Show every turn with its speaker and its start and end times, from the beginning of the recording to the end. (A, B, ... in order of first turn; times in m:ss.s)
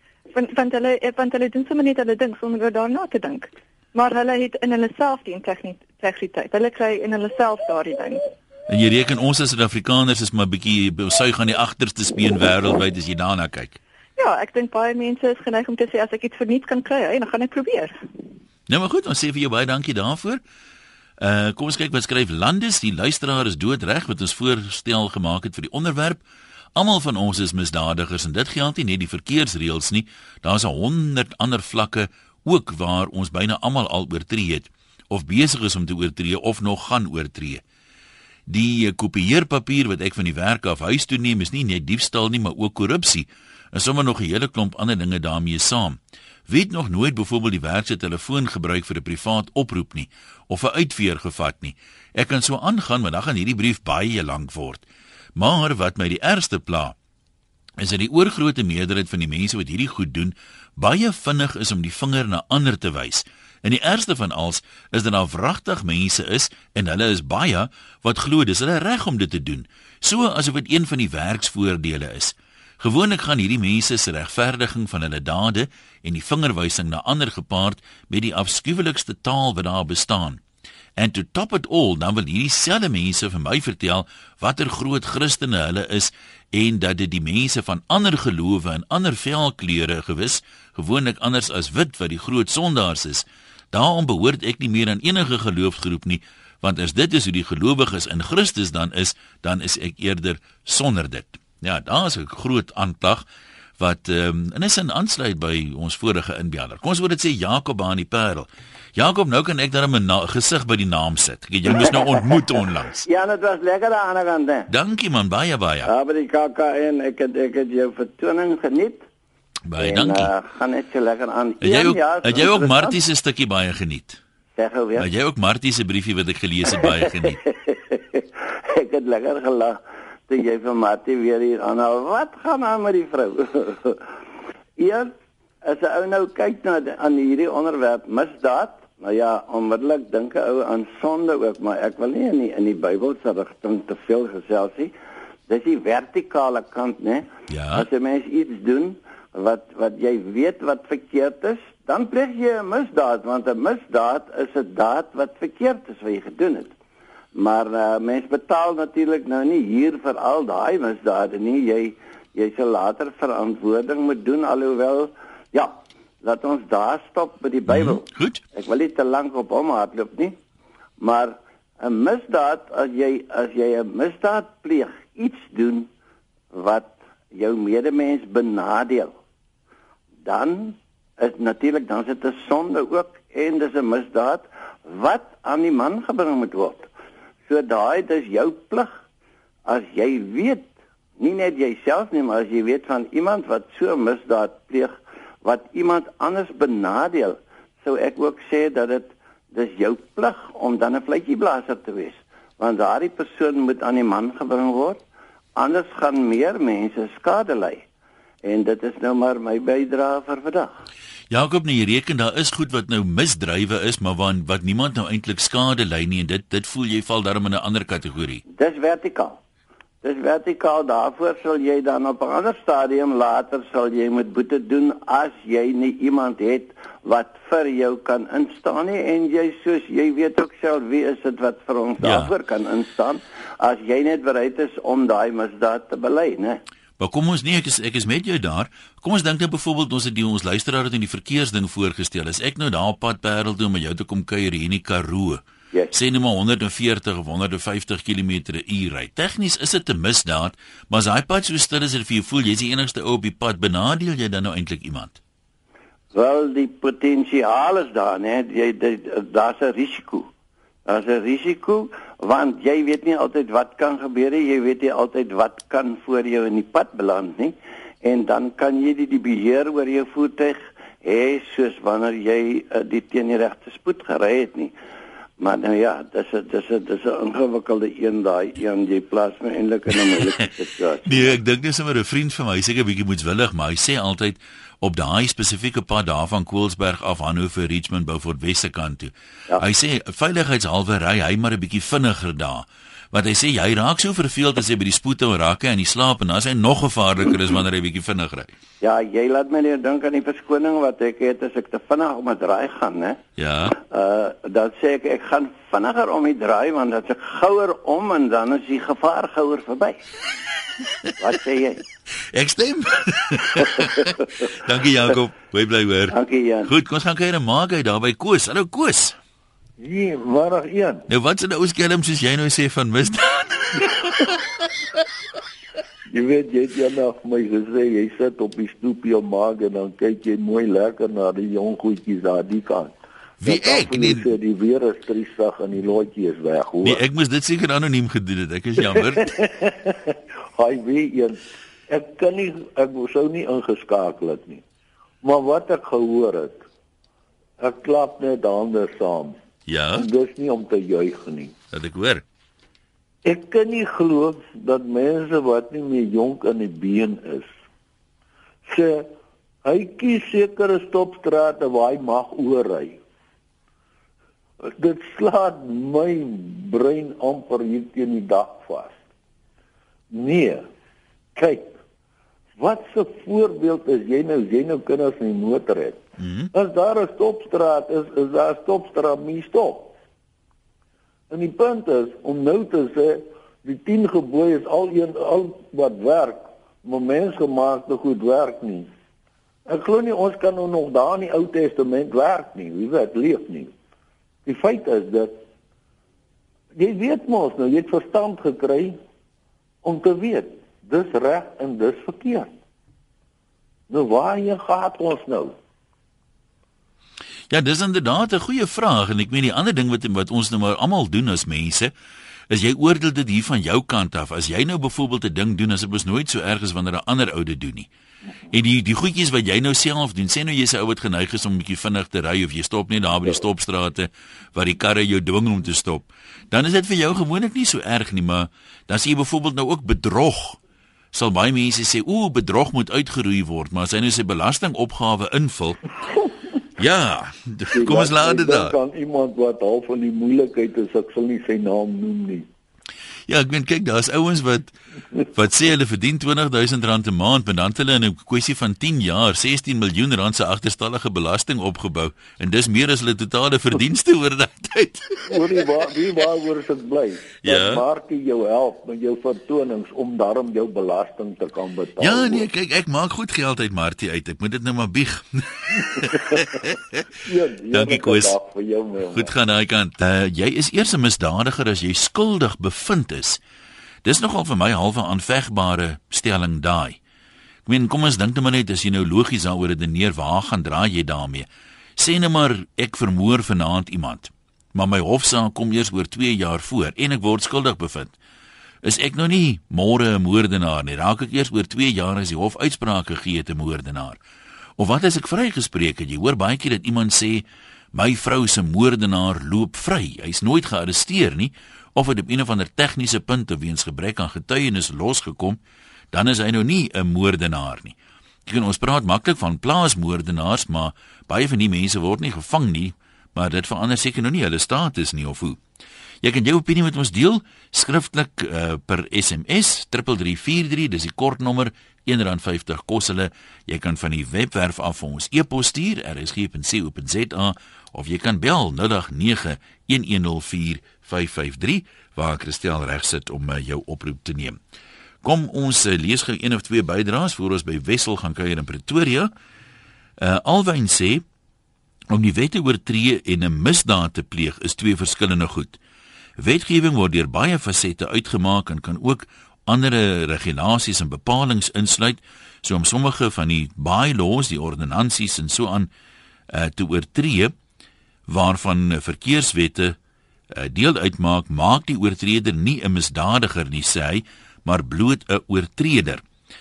0:00.3-0:08.2 A
0:08.7-0:13.8 B
0:14.2-0:17.9 A
0:18.7-0:20.4 B
0:21.2-0:26.2 B
0:26.8-0:37.6 B
0:38.5-0:54.8 B
0:55.4-0:57.0 B
0:57.8-1:20.4 B
1:21.0-1:43.2 B
1:43.8-1:53.0 B
1:51.8-1:52.4 C
1:53.0-1:54.7 C
1:54.7-1:55.9 B
1:55.8-1:59.0 C
1:59.7-2:00.3 B
1:59.8-2:03.0 C
2:01.6-2:04.2 B
2:04.6-2:05.0 C
2:05.0-2:07.4 B
2:07.5-2:14.0 C
2:14.8-2:24.9 C
2:25.5-2:36.7 C
2:27.5-2:27.8 B
2:37.4-2:50.4 C
2:47.7-2:48.4 B
2:51.0-2:55.9 C
2:56.5-2:59.1 C
3:00.2-3:06.9 C
3:07.5-3:09.0 C
3:09.6-3:25.0 C
3:25.6-3:27.8 C
3:28.4-3:30.8 C
3:31.3-3:38.4 B
3:38.5-3:39.4 C
3:40.0-3:56.6 C
3:52.0-3:52.3 B
3:57.0-4:15.2 B
4:16.1-4:20.3 C
4:20.8-4:34.7 C
4:35.4-4:41.4 C
4:41.0-4:58.5 B
4:58.8-5:03.2 C
5:03.4-5:03.7 B
5:03.8-5:10.0 C
5:11.2-5:11.8 C
5:12.3-5:16.1 B
5:13.8-5:14.1 C
5:16.1-5:16.7 C
5:16.6-5:19.2 B
5:19.8-5:21.0 D
5:21.1-5:24.0 B
5:26.1-5:37.0 D
5:33.4-5:34.3 B
5:36.8-5:39.4 B
5:38.9-5:44.6 D
5:45.2-5:46.6 D
5:47.6-5:49.4 D
5:49.7-5:50.1 B
5:49.9-5:51.6 D
5:51.7-5:52.2 B
5:53.2-5:57.5 D
5:58.6-5:59.1 D
5:59.6-6:03.0 D
6:04.6-6:09.0 D
6:10.1-6:10.6 D
6:11.4-6:11.8 D
6:12.6-6:19.9 D
6:16.2-6:16.5 B
6:21.3-6:28.9 D
6:29.7-6:33.7 D
6:34.4-6:35.4 D
6:36.7-6:39.0 D
6:39.8-6:42.5 D
6:43.9-6:45.6 D
6:47.5-6:51.9 B
6:52.5-6:57.9 B
6:58.5-7:10.6 B
7:11.1-7:15.8 B
7:16.8-7:18.8 B
7:17.7-7:22.5 D
7:23.3-7:24.7 B
7:25.3-7:35.4 B
7:35.3-7:42.5 D
7:37.4-7:37.8 B
7:42.0-7:46.8 B
7:47.2-7:49.3 D
7:47.7-7:48.4 B
7:49.1-7:53.4 B
7:54.0-7:57.0 B
7:57.6-8:08.2 B
8:08.8-8:14.2 B
8:14.8-8:25.6 B
8:26.1-8:35.6 B
8:36.2-8:54.6 B
8:55.2-8:59.3 B
9:00.2-9:01.2 B
9:02.1-9:05.8 B
9:06.4-9:15.9 B
9:16.5-9:17.5 B
9:18.3-9:20.0 B
9:20.5-9:26.2 B